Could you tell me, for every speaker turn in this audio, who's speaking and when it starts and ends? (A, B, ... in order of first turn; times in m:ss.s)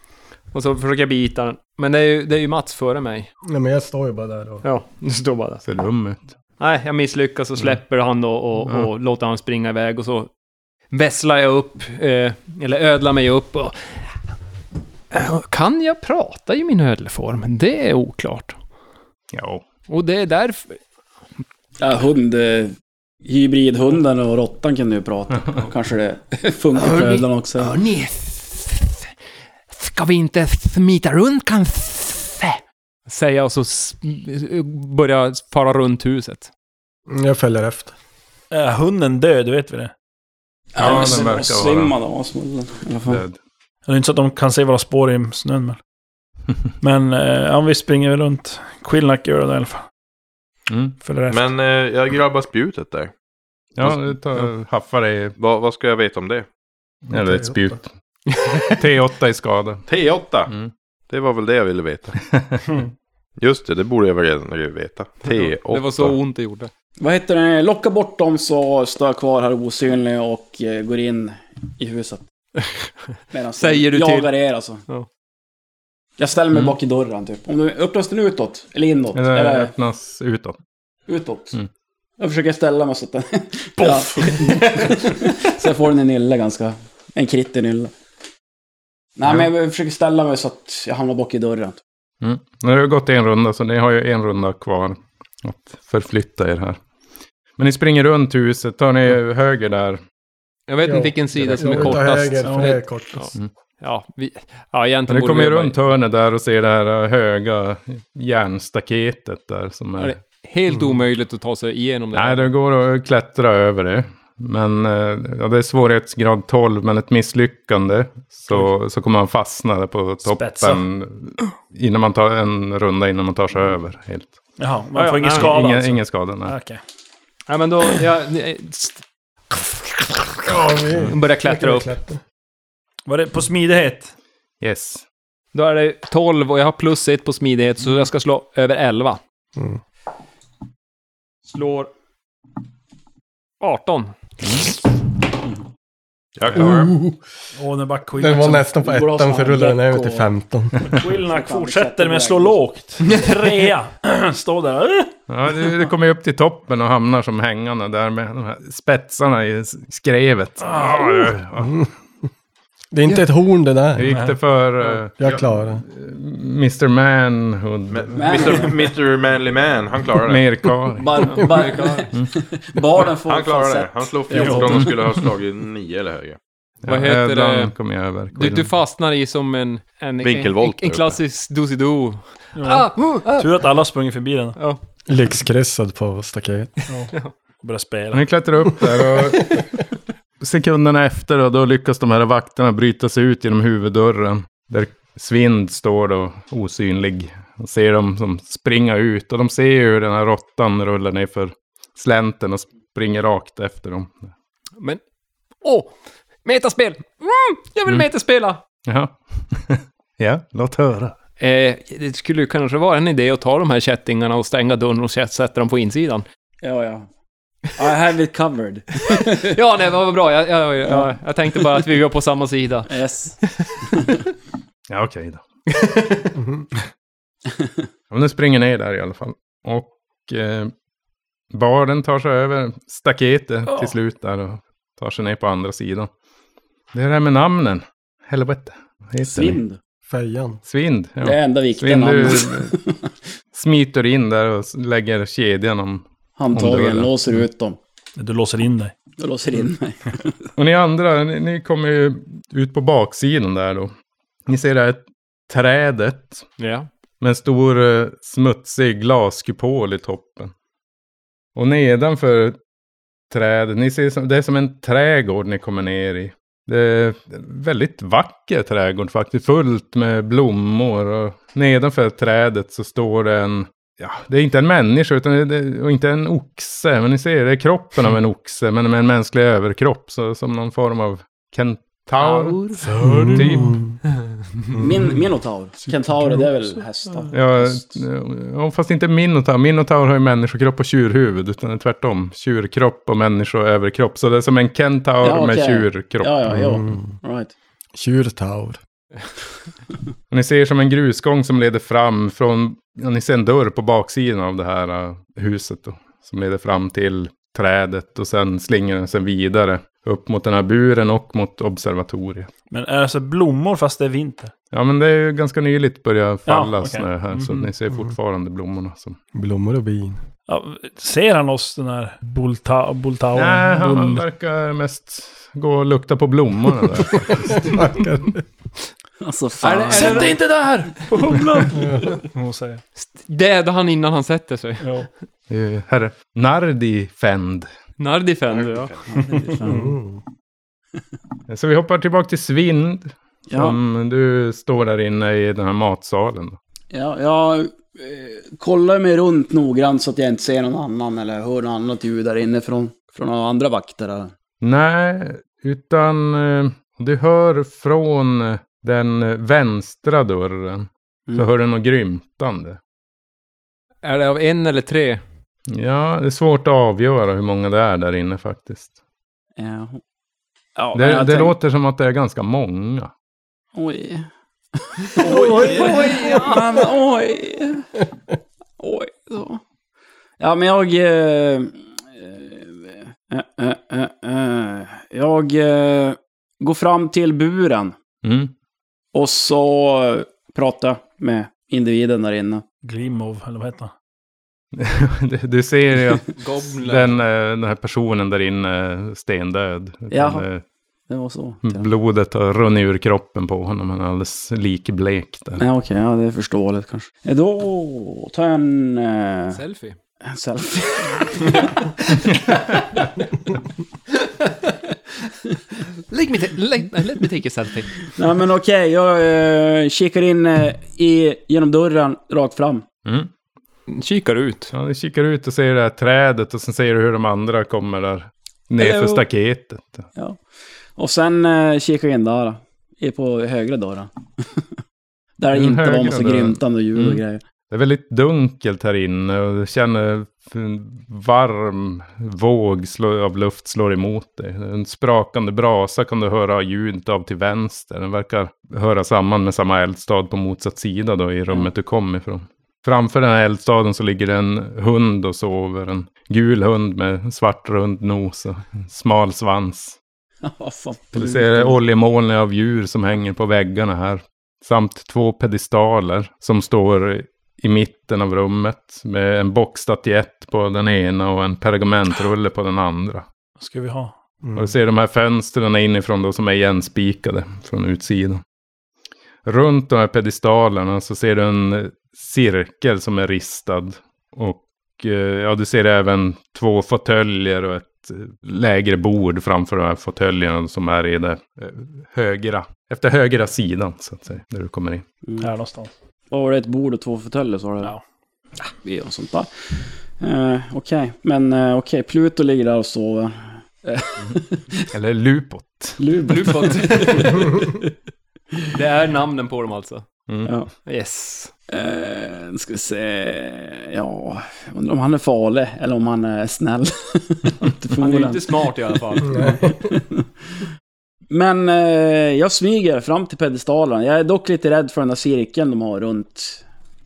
0:00.5-0:03.3 A
0:03.4-0:04.6 B
0:04.6-0:05.6 A
0:05.6-0:06.2 C
0:06.6-0:10.3 A
0:10.9-0:14.0 A
0:15.1-0:18.6 A
0:19.3-0:19.6 C
0:19.9-0:20.8 A
0:21.8-0:27.8 D
0:26.8-0:29.1 A
0:29.7-0:36.5 A
0:37.1-0:37.9 B
0:38.5-0:39.9 E
0:40.7-0:43.2 D
0:40.8-0:41.9 C
0:40.8-0:41.2 E
0:43.1-0:43.4 C
0:43.9-0:45.8 E
0:46.8-0:49.8 E
0:50.7-0:51.0 C
0:51.0-0:51.5 E
0:51.3-0:53.1 F
0:53.8-0:55.4 C
0:55.4-0:56.5 F
0:57.1-0:59.8 C
0:57.1-0:57.8 B
0:59.9-1:00.5 F
1:01.1-1:02.2 F
1:02.3-1:02.6 C
1:03.4-1:06.2 F
1:05.2-1:06.7 A
1:07.0-1:12.3 D
1:13.3-1:14.8 D
1:13.6-1:14.3 A
1:16.2-1:19.7 D
1:19.2-1:20.6 C
1:21.1-1:21.6 D
1:22.2-1:27.9 D
1:23.8-1:24.8 E
1:29.2-1:31.8 D
1:32.2-1:36.8 C
1:37.6-1:40.0 C
1:40.7-1:45.8 A
1:40.8-1:43.3 B
1:41.6-1:42.0 C
1:42.4-1:42.8 E
1:45.1-1:50.2 C
1:50.0-1:52.5 A
1:52.1-2:04.4 C
2:00.2-2:00.8 E
2:04.6-2:06.8 E
2:05.0-2:05.6 A
2:05.3-2:06.6 C
2:07.5-2:12.0 A
2:10.4-2:12.2 B
2:13.1-2:14.1 E
2:14.6-2:15.0 C
2:15.5-2:19.2 A
2:21.5-2:21.9 E
2:23.6-2:24.1 A
2:26.4-2:26.9 F
2:26.6-2:27.2 B
2:27.6-2:28.8 E
2:28.2-2:31.1 B
2:28.8-2:30.3 D
2:30.9-2:35.1 E
2:31.3-2:32.6 D
2:33.1-2:33.5 A
2:35.3-2:41.9 C
2:40.6-2:41.3 E
2:41.6-2:41.9 B
2:42.9-2:44.1 B
2:44.0-2:48.7 C
2:44.0-2:44.4 E
2:45.2-2:45.8 B
2:47.9-2:50.5 F
2:48.2-2:48.8 D
2:50.2-2:51.1 C
2:51.0-2:54.9 D
2:51.2-2:52.1 A
2:53.2-2:56.4 F
2:54.4-2:54.9 E
2:54.8-2:55.2 C
2:56.8-2:58.7 C
2:56.9-2:57.7 A
2:58.4-3:03.6 A
3:00.2-3:01.2 F
3:02.6-3:04.6 E
3:05.1-3:06.7 B
3:06.9-3:08.3 E
3:08.1-3:09.7 C
3:10.4-3:24.3 C
3:25.6-3:25.9 A
3:26.4-3:28.6 A
3:28.8-3:31.2 C
3:31.4-3:36.2 A
3:36.6-3:37.1 D
3:37.8-3:39.5 D
3:39.4-3:42.9 A
3:42.9-3:44.2 D
3:43.4-3:44.2 A
3:44.9-3:45.4 C
3:45.7-3:46.3 A
3:46.4-3:46.7 B
3:48.1-3:50.7 C
3:51.5-3:56.1 C
3:56.9-3:59.6 C
3:59.2-3:59.8 D
4:00.1-4:00.6 B
4:00.7-4:02.7 C
4:01.2-4:03.0 D
4:03.5-4:07.1 C
4:06.4-4:07.8 D
4:08.2-4:08.9 E
4:09.2-4:10.4 D
4:10.6-4:13.9 C
4:14.5-4:16.5 C
4:16.6-4:16.9 A
4:17.2-4:20.5 C
4:21.6-4:22.6 C
4:23.3-4:43.8 C
4:42.2-4:43.1 A
4:43.0-4:44.0 B
4:44.7-4:45.2 B
4:44.8-4:47.9 D
4:47.3-4:56.3 C
4:55.2-4:57.5 D
4:56.5-4:57.2 B
4:57.9-4:58.8 B
5:00.3-5:12.5 C
5:12.7-5:14.5 E
5:14.7-5:19.2 C
5:16.5-5:17.7 E
5:19.3-5:20.2 B
5:20.5-5:24.2 E
5:23.3-5:27.9 C
5:27.2-5:28.4 B
5:29.2-5:30.4 D
5:29.6-5:30.5 A
5:29.9-5:32.8 E
5:33.0-5:34.9 A
5:34.8-5:35.1 E
5:35.5-5:37.7 C
5:38.0-5:39.0 A
5:38.5-5:39.1 F
5:39.2-5:39.8 D
5:39.6-5:39.9 E
5:39.6-5:40.2 B
5:41.5-5:46.6 C
5:43.5-5:43.8 D
5:46.9-5:54.3 D
5:54.6-6:02.8 C
6:04.0-6:05.2 A
6:05.7-6:08.9 C
6:09.6-6:10.0 D
6:10.8-6:11.6 D
6:10.9-6:13.1 C
6:13.7-6:14.3 D
6:14.8-6:17.9 D
6:15.2-6:16.6 B
6:15.3-6:16.5 A
6:15.9-6:16.3 E
6:18.8-6:19.6 D
6:20.4-6:28.0 D
6:28.2-6:28.5 C
6:29.1-6:32.6 D
6:32.8-6:33.9 E
6:34.7-6:40.6 C
6:36.4-6:37.2 A
6:40.1-6:40.5 D
6:41.1-6:41.9 D
6:41.6-6:45.6 C
6:45.6-6:49.6 D
6:49.5-6:50.0 A
6:50.2-6:51.7 D
6:54.2-6:54.8 A
6:56.1-6:58.1 A
6:58.1-7:02.8 D
7:03.9-7:04.7 A
7:04.7-7:10.1 C
7:08.8-7:09.2 D
7:11.0-7:14.7 D
7:15.4-7:17.4 D
7:15.5-7:40.0 C
7:40.4-7:41.8 D
7:41.1-7:53.3 C
7:53.6-7:54.2 E
7:54.4-7:54.7 B
7:54.6-7:58.4 C
7:59.4-8:15.0 C
8:15.4-8:15.9 E
8:16.3-8:17.9 D
8:18.6-8:19.5 D
8:20.2-8:24.9 D
8:24.9-8:26.0 C
8:26.0-8:27.9 D
8:26.3-8:27.6 A
8:28.7-8:30.1 A
8:30.8-8:31.5 A
8:31.7-8:40.2 D
8:38.0-8:39.4 A
8:39.3-8:39.7 B
8:41.3-8:46.6 D